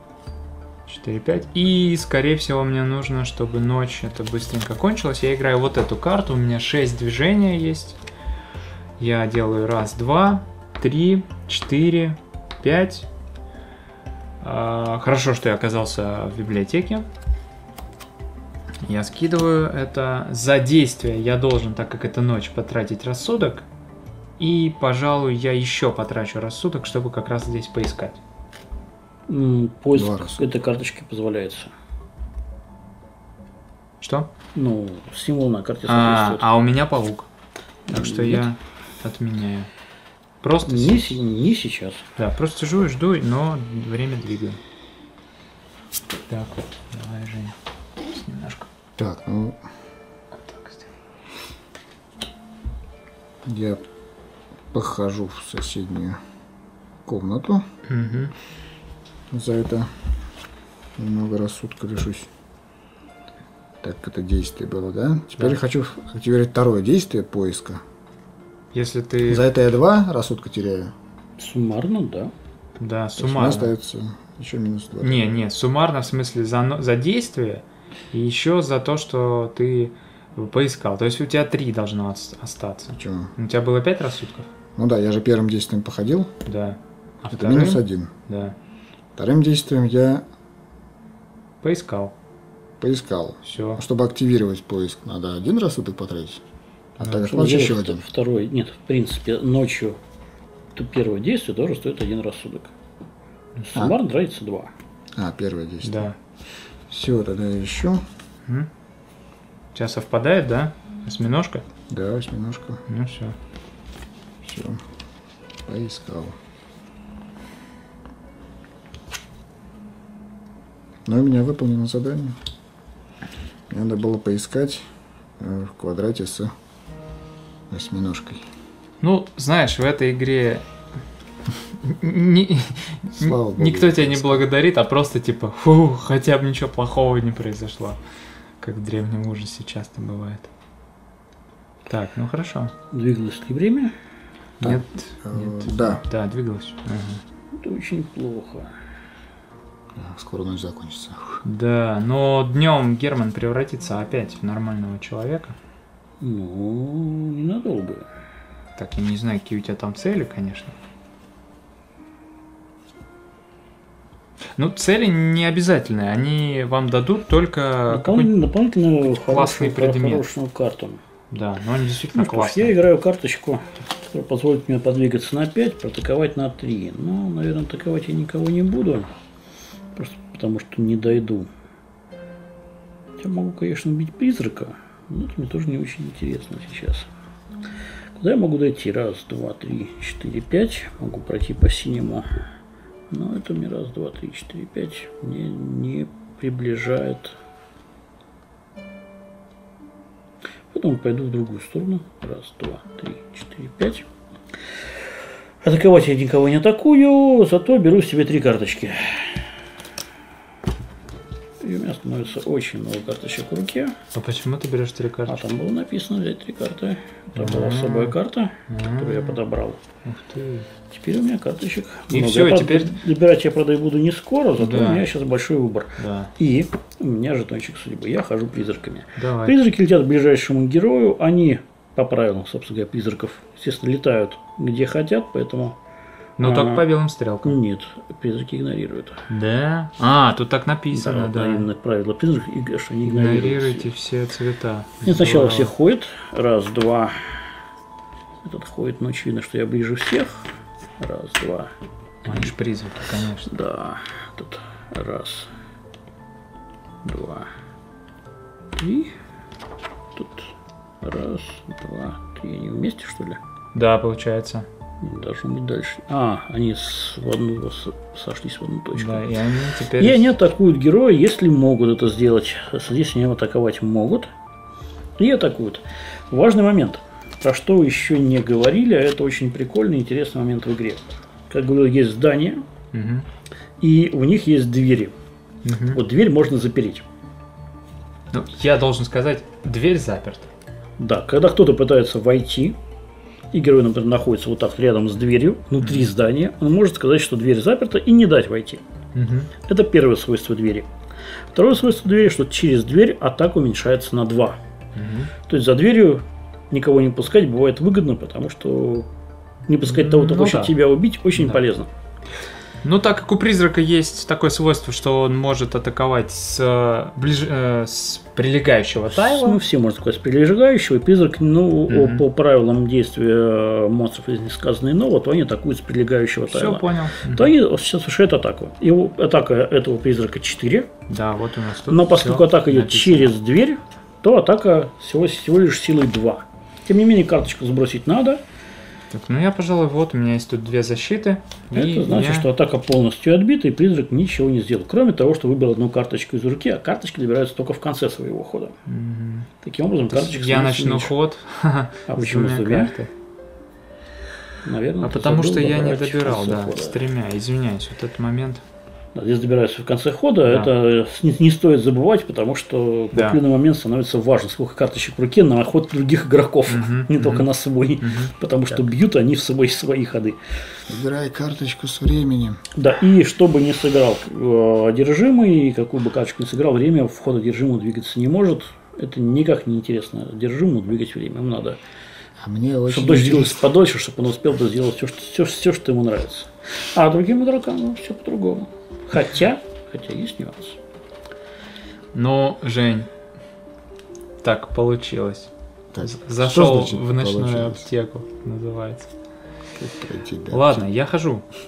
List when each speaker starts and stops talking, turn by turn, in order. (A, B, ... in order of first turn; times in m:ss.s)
0:00.9-0:08.0 A
0:09.0-0:13.1 A
0:14.4-0:17.1 A
0:18.9-0:23.7 A
0:24.4-0:28.2 A
0:29.3-0:31.7 B
0:29.9-0:30.4 C
0:34.0-0:34.3 A
0:34.6-0:36.5 B
0:35.9-0:37.3 A
0:37.9-0:38.5 B
0:37.9-0:39.7 A
0:40.4-0:41.2 A
0:40.7-0:42.0 B
0:42.2-0:44.6 A
0:46.3-0:48.7 A
0:49.0-0:49.6 C
0:50.3-0:50.9 A
0:53.4-0:53.8 C
0:54.7-0:56.2 C
0:57.0-0:57.6 C
0:57.9-0:58.3 A
0:59.3-0:59.9 C
1:01.0-1:02.3 C
1:03.8-1:07.8 C
1:08.7-1:09.4 A
1:09.3-1:10.9 C
1:11.4-1:12.3 B
1:12.8-1:13.7 A
1:13.2-1:15.2 C
1:15.0-1:24.5 A
1:23.0-1:23.3 C
1:24.8-1:26.3 C
1:26.4-1:28.6 A
1:27.3-1:28.1 C
1:29.2-1:30.2 C
1:31.6-1:32.1 A
1:32.8-1:36.4 C
1:33.4-1:33.8 A
1:37.0-1:38.0 C
1:37.0-1:37.4 A
1:37.3-1:40.0 B
1:40.7-1:42.7 B
1:43.7-1:44.7 B
1:45.2-1:46.1 C
1:45.8-1:46.2 A
1:46.9-1:48.0 C
1:49.7-1:51.6 A
1:51.9-1:52.8 C
1:52.9-1:53.4 A
1:54.4-1:54.8 C
1:55.7-1:56.4 C
2:01.0-2:02.4 C
2:03.7-2:04.9 C
2:05.4-2:06.5 C
2:07.7-2:08.4 C
2:09.0-2:10.6 A
2:11.8-2:18.0 A
2:13.2-2:14.4 C
2:18.6-2:20.5 A
2:21.9-2:22.7 A
2:22.9-2:23.9 B
2:24.6-2:27.2 A
2:24.6-2:26.0 C
2:27.5-2:28.7 B
2:30.0-2:31.4 C
2:31.4-2:35.6 A
2:36.2-2:38.1 B
2:38.8-2:40.7 A
2:44.6-2:48.3 A
2:47.9-2:51.0 B
2:49.0-2:50.3 A
2:51.3-2:52.8 A
2:52.1-2:59.1 B
3:00.0-3:01.5 B
3:03.2-3:07.1 B
3:08.2-3:12.4 B
3:13.1-3:17.4 B
3:20.7-3:24.1 B
3:25.6-3:29.5 B
3:31.6-3:34.0 B
3:34.1-3:35.5 A
3:35.3-3:39.8 B
3:37.4-3:39.4 A
3:40.0-3:40.7 A
3:40.9-3:55.8 B
3:42.1-3:43.0 A
3:44.6-3:45.1 A
3:46.0-3:46.3 A
3:49.2-3:49.6 A
3:56.4-3:57.6 A
3:56.4-3:56.9 B
3:57.4-3:59.3 B
3:59.3-4:01.7 A
4:00.9-4:03.9 B
4:03.1-4:05.7 A
4:05.0-4:07.6 B
4:08.4-4:11.7 B
4:12.2-4:12.5 B
4:12.2-4:13.6 A
4:13.5-4:15.5 B
4:17.0-4:17.5 B
4:18.8-4:19.2 B
4:20.1-4:23.4 B
4:23.7-4:24.7 A
4:25.0-4:29.3 B
4:28.9-4:30.3 A
4:30.0-4:34.3 B
4:35.2-4:42.6 B
4:42.9-4:43.3 A
4:43.8-4:45.1 B
4:45.6-4:46.0 A
4:45.9-4:47.0 B
4:48.3-4:50.5 A
4:51.0-4:52.8 B
4:53.5-4:58.8 B
4:55.8-4:56.1 A
4:59.1-4:59.5 A
4:59.6-5:00.9 B
5:01.5-5:04.6 B
5:05.0-5:05.3 A
5:05.4-5:09.1 B
5:09.7-5:11.9 B
5:09.8-5:10.8 A
5:11.4-5:11.6 A
5:12.8-5:19.6 A
5:19.1-5:30.9 B
5:21.9-5:22.2 A
5:26.5-5:27.5 A
5:31.1-5:33.4 A
5:31.9-5:38.4 B
5:39.1-5:42.5 A
5:41.7-5:48.7 B
5:48.9-5:49.5 A
5:49.6-5:51.1 B
5:50.1-5:53.1 A
5:52.1-5:53.0 B
5:54.6-5:57.0 B
5:55.0-5:58.6 A
5:59.1-6:10.8 B
6:00.4-6:00.7 A
6:03.1-6:03.4 A
6:06.7-6:07.5 A
6:08.0-6:08.3 A
6:10.9-6:12.6 C
6:12.7-6:21.8 B
6:22.4-6:23.6 C
6:22.9-6:30.8 B
6:32.1-6:33.1 A
6:34.4-6:35.5 A
6:35.9-6:37.8 C
6:36.0-6:39.1 A
6:39.8-6:40.8 C
6:40.5-6:41.4 A